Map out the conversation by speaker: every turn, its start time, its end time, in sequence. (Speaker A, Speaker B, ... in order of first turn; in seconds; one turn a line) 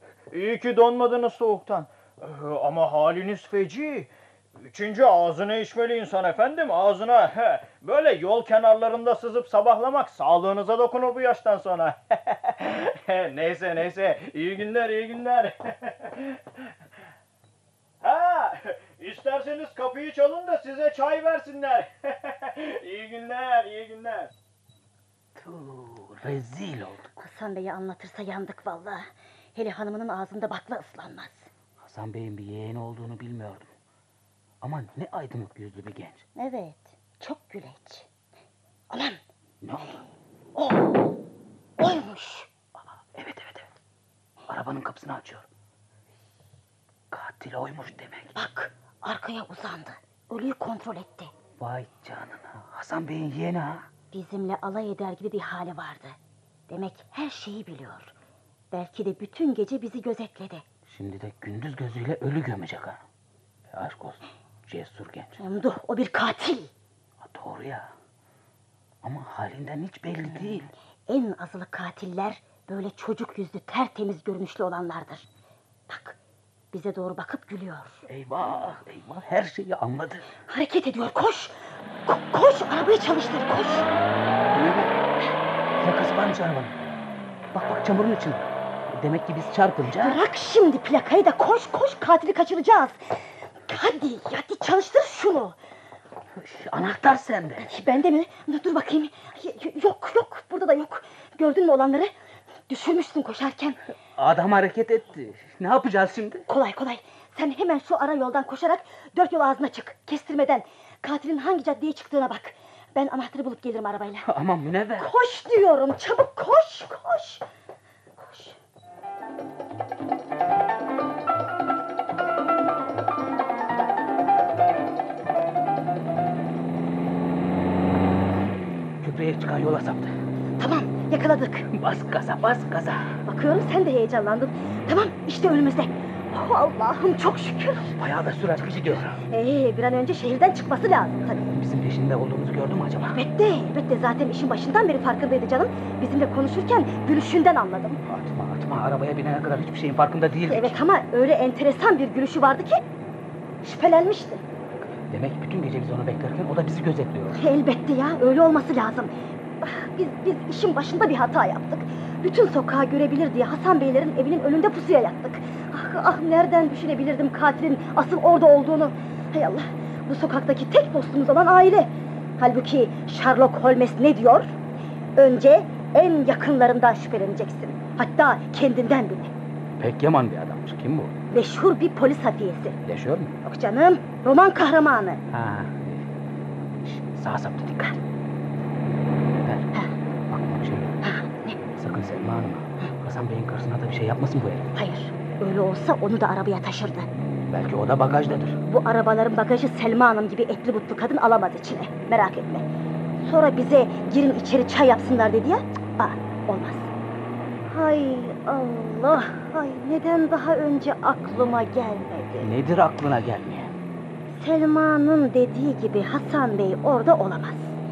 Speaker A: 0.3-4.1
Speaker A: 4.6-16.4
Speaker A: 18.0-24.3
Speaker B: 25.4-27.1
Speaker C: 27.2-31.5
Speaker B: 31.8-33.7
Speaker B: 34.6-36.3
Speaker C: 36.4-38.1
Speaker C: 38.9-39.2
Speaker B: 39.6-40.0
Speaker C: 40.6-41.2
Speaker C: 41.8-42.5
Speaker B: 43.0-43.7
Speaker B: 44.5-45.5
Speaker B: 47.1-48.3
Speaker C: 48.4-51.3
Speaker B: 51.6-53.9
Speaker C: 54.1-56.2
Speaker C: 56.7-58.1
Speaker C: 58.7-60.6
Speaker B: 60.9-63.0
Speaker B: 63.7-65.4
Speaker C: 65.4-66.7
Speaker B: 67.2-67.9
Speaker B: 69.0-70.7
Speaker C: 70.2-75.3
Speaker C: 75.9-76.2
Speaker C: 76.7-78.0
Speaker B: 78.1-80.2
Speaker C: 80.5-83.9
Speaker B: 84.5-84.9
Speaker B: 85.8-86.8
Speaker B: 87.5-90.2
Speaker C: 89.9-95.6
Speaker B: 96.4-97.7
Speaker C: 97.6-102.1
Speaker C: 102.7-103.8
Speaker B: 104.1-106.5
Speaker C: 106.5-114.3
Speaker B: 114.2-115.1
Speaker C: 115.0-117.4
Speaker C: 118.2-118.6
Speaker B: 129.0-130.1
Speaker C: 130.6-131.7
Speaker B: 131.7-133.2
Speaker C: 133.2-137.9
Speaker B: 137.9-139.2
Speaker C: 139.1-141.4
Speaker B: 141.4-143.2
Speaker C: 143.1-148.0
Speaker B: 148.0-150.8
Speaker C: 150.5-152.8
Speaker C: 153.6-154.4
Speaker B: 154.9-157.4
Speaker C: 157.3-174.5
Speaker C: 175.2-179.3
Speaker B: 179.8-181.1
Speaker C: 181.3-182.8
Speaker B: 182.8-183.3
Speaker C: 183.4-185.2
Speaker B: 185.3-186.1
Speaker B: 186.8-188.0
Speaker B: 189.3-189.7
Speaker B: 190.3-191.0
Speaker C: 191.0-191.6
Speaker B: 191.7-194.7
Speaker C: 194.7-197.1
Speaker B: 197.5-198.6
Speaker C: 198.7-202.7
Speaker C: 203.2-206.9
Speaker C: 207.7-212.5
Speaker B: 212.4-213.7
Speaker C: 214.3-217.8